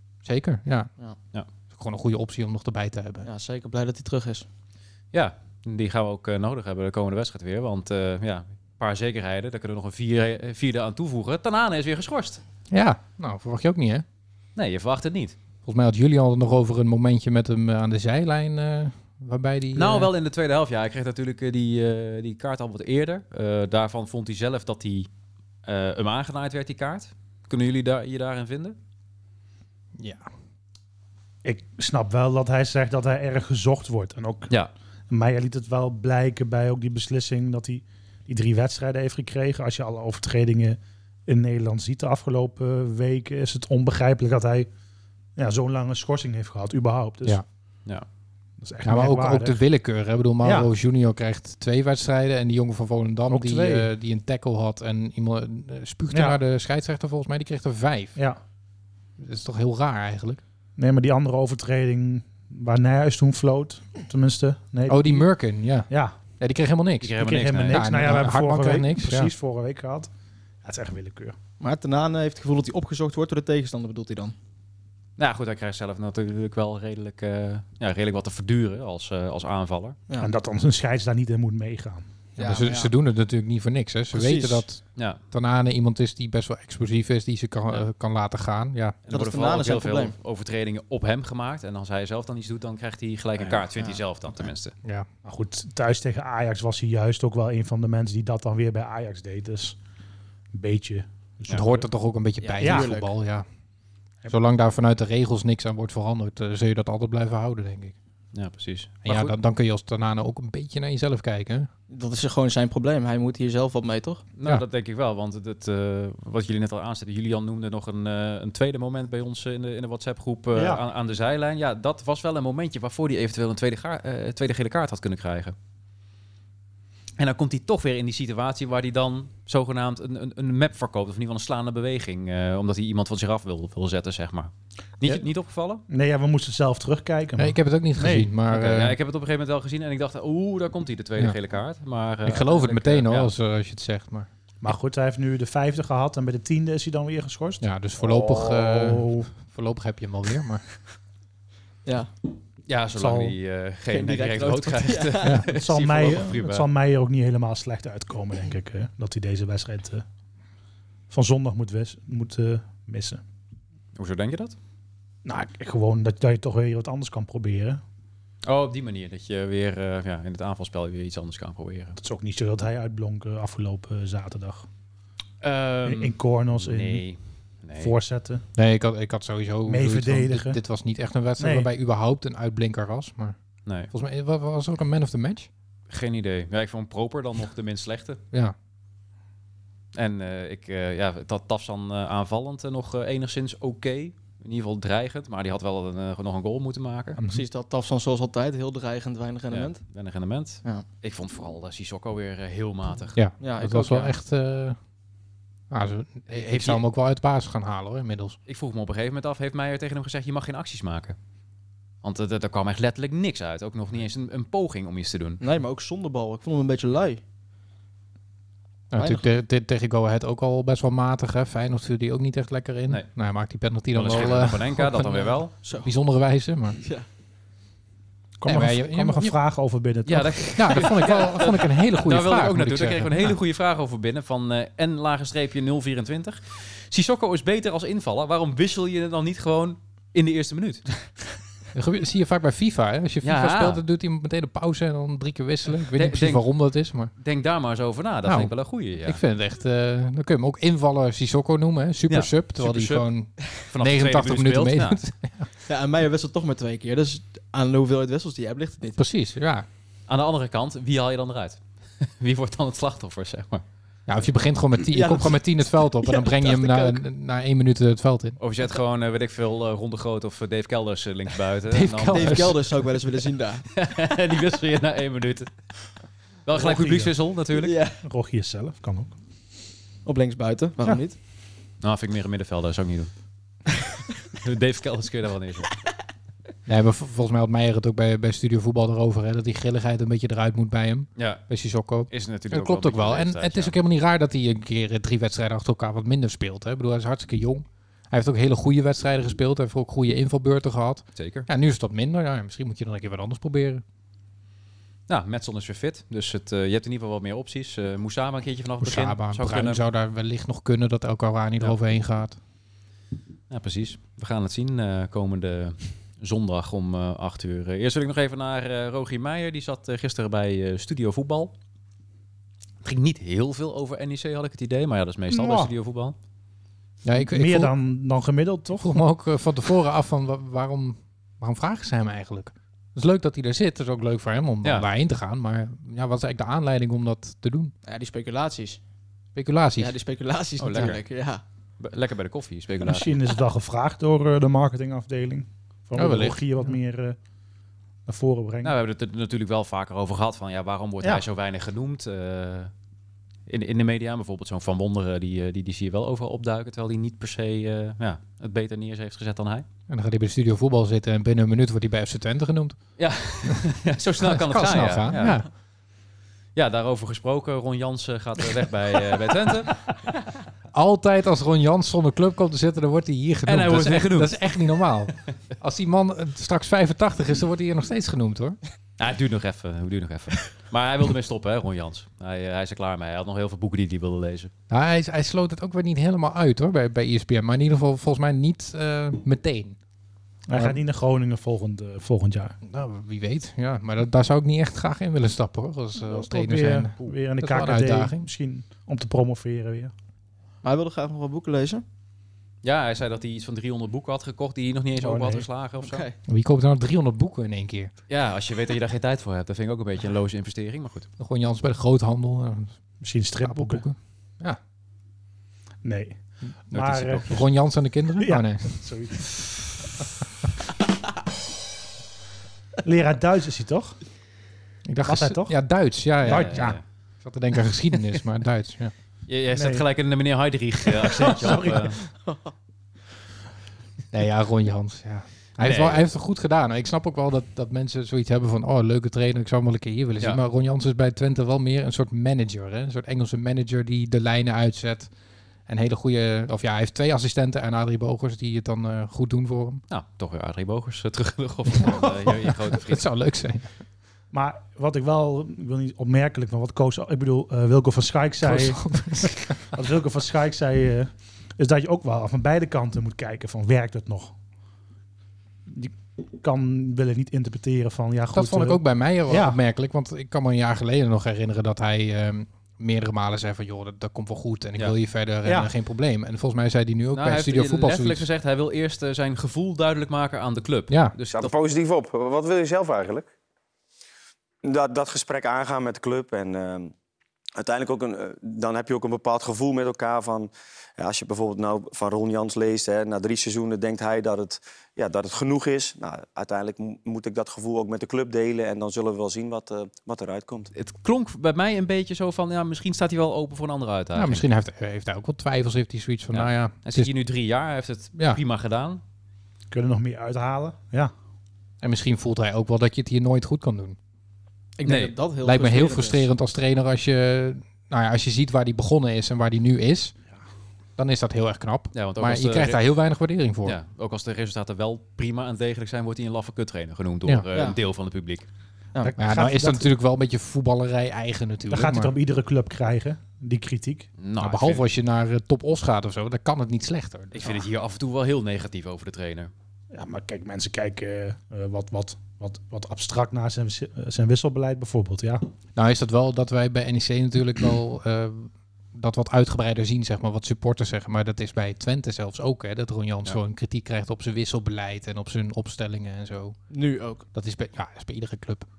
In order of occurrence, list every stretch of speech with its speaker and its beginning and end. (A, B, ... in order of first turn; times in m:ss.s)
0:00.2-0:00.9 A
0:01.7-0:03.3 A
0:03.2-0:04.5 B
0:05.1-0:12.4 C
0:12.7-0:14.0 A
0:14.6-0:15.4 C
0:15.6-0:20.1 A
0:19.8-0:25.1 C
0:25.6-0:28.8 C
0:30.0-0:30.3 A
0:31.4-0:34.5 D
0:35.1-0:44.7 D
0:45.4-0:47.4 D
0:48.6-0:49.6 D
0:48.8-0:58.2 A
0:50.4-0:50.7 D
0:53.3-0:53.9 D
0:56.1-0:56.4 D
0:59.2-1:00.4 A
1:00.8-1:05.3 D
1:04.9-1:09.3 A
1:05.9-1:06.2 D
1:07.0-1:08.2 C
1:07.2-1:10.1 D
1:10.6-1:11.4 D
1:11.6-1:14.4 B
1:15.2-1:20.0 C
1:20.2-1:22.1 D
1:22.4-1:22.9 B
1:22.4-1:29.0 A
1:24.1-1:24.6 B
1:25.0-1:25.2 C
1:29.1-1:34.8 C
1:29.1-1:30.1 B
1:35.2-1:39.8 D
1:40.5-1:41.9 D
1:41.5-1:43.5 A
1:42.4-1:43.1 B
1:42.6-1:43.0 D
1:44.3-1:48.0 A
1:48.3-1:49.3 C
1:49.0-1:51.7 A
1:51.9-1:54.2 B
1:54.4-2:05.6 C
2:00.5-2:00.8 D
2:07.2-2:15.8 C
2:15.9-2:18.3 D
2:17.4-2:19.0 A
2:18.5-2:23.3 C
2:22.2-2:24.3 A
2:24.6-2:29.3 D
2:27.6-2:30.6 A
2:32.7-2:36.7 C
2:33.0-2:33.4 D
2:33.9-2:35.4 B
2:35.5-2:40.0 D
2:41.1-2:43.2 D
2:44.0-2:44.6 C
2:45.2-2:47.8 D
2:48.4-2:52.0 C
2:52.0-2:54.7 D
2:55.4-2:58.0 C
2:55.8-2:57.0 D
2:57.8-2:58.4 D
2:58.6-3:03.4 A
2:59.7-3:00.6 D
3:01.4-3:01.7 D
3:03.7-3:03.9 C
3:03.9-3:05.5 A
3:05.9-3:08.2 C
3:10.0-3:17.2 C
3:17.3-3:19.8 B
3:19.5-3:23.2 C
3:23.2-3:24.8 A
3:23.4-3:24.1 B
3:25.7-3:28.4 A
3:26.4-3:26.8 C
3:28.5-3:31.2 C
3:32.0-3:35.4 C
3:35.4-3:37.2 B
3:38.9-3:46.8 A
3:38.9-3:39.2 B
3:43.9-3:45.5 C
3:45.6-3:45.9 B
3:46.8-3:47.1 B
3:48.4-3:50.5 D
3:48.4-3:49.4 A
3:50.0-4:00.9 C
3:50.6-3:53.4 A
4:01.7-4:07.1 A
4:03.2-4:03.8 C
4:05.9-4:06.5 C
4:07.2-4:09.2 C
4:08.2-4:08.5 A
4:09.0-4:15.5 A
4:12.1-4:13.1 C
4:13.6-4:15.0 C
4:15.7-4:19.0 B
4:19.0-4:19.7 A
4:20.1-4:23.6 C
4:24.1-4:28.4 A
4:24.9-4:27.0 B
4:28.4-4:32.5 C
4:31.7-4:32.8 A
4:32.1-4:33.7 B
4:33.7-4:35.5 C
4:36.5-4:37.8 C
4:36.5-4:37.1 D
4:37.6-4:38.0 B
4:38.0-4:39.2 D
4:40.0-4:41.2 B
4:41.8-4:43.1 C
4:44.3-4:45.7 C
4:46.7-5:03.8 A
4:51.2-4:51.4 C
4:52.1-4:53.8 C
5:01.2-5:01.5 C
5:05.1-5:09.8 C
5:08.8-5:12.4 A
5:13.5-5:21.5 C
5:22.8-5:26.2 C
5:25.3-5:25.7 D
5:27.0-5:27.7 A
5:27.2-5:29.0 D
5:28.8-5:37.7 A
5:37.9-5:38.8 B
5:39.4-5:40.0 A
5:39.8-5:41.4 B
5:40.6-5:41.0 C
5:41.8-5:43.1 C
5:42.8-5:47.2 D
5:46.0-5:46.4 A
5:48.1-5:48.8 D
5:48.6-5:52.7 C
5:53.5-5:59.7 C
5:59.9-6:02.8 A
6:03.0-6:05.4 C
6:04.2-6:05.5 A
6:06.6-6:09.8 C
6:10.7-6:18.6 A
6:13.5-6:14.4 C
6:19.0-6:24.5 C
6:24.7-6:29.8 A
6:30.5-6:32.6 D
6:30.5-6:30.8 A
6:32.6-6:38.3 A
6:36.0-6:39.9 D
6:40.6-6:41.8 B
6:42.6-6:46.0 C
6:45.0-6:45.5 D
6:45.8-6:46.2 B
6:46.3-6:47.9 A
6:48.1-6:51.1 C
6:51.2-6:52.7 A
6:53.0-6:53.8 D
6:53.4-6:54.6 A
6:55.8-6:56.2 D
6:56.7-6:58.8 A
6:56.7-6:57.5 D
6:58.2-6:59.4 D
7:02.8-7:04.0 D
7:04.9-7:08.9 A
7:05.1-7:05.6 D
7:06.2-7:06.8 C
7:06.2-7:06.8 D
7:09.3-7:12.0 C
7:09.5-7:09.8 D
7:10.9-7:12.0 D
7:14.1-7:25.1 A
7:15.6-7:16.0 C
7:25.7-7:29.8 A
7:29.9-7:33.1 C
7:31.8-7:33.7 A
7:34.3-7:44.3 D
7:38.4-7:39.7 A
7:45.7-7:49.6 D
7:48.3-7:58.3 A
7:55.4-7:55.7 D
7:57.1-8:01.5 C
8:00.9-8:01.2 A
8:01.3-8:03.3 E
8:04.6-8:06.9 E
8:07.6-8:20.7 E
8:20.7-8:24.5 C
8:24.2-8:27.1 A
8:26.3-8:29.0 C
8:28.2-8:28.4 A
8:29.7-8:31.1 D
8:31.8-8:34.0 A
8:34.8-8:36.3 B
8:34.8-8:35.1 C
8:35.4-8:40.2 A
8:41.0-8:43.8 A
8:41.9-8:42.8 C
8:43.6-8:48.5 C
8:49.0-8:49.9 D
8:49.2-8:52.2 A
8:51.7-8:54.1 D
8:54.2-8:54.8 C
8:54.4-8:57.7 A
8:57.3-8:59.5 C
8:59.9-9:05.4 D
9:05.8-9:16.6 A
9:16.7-9:17.3 B
9:17.4-9:18.6 A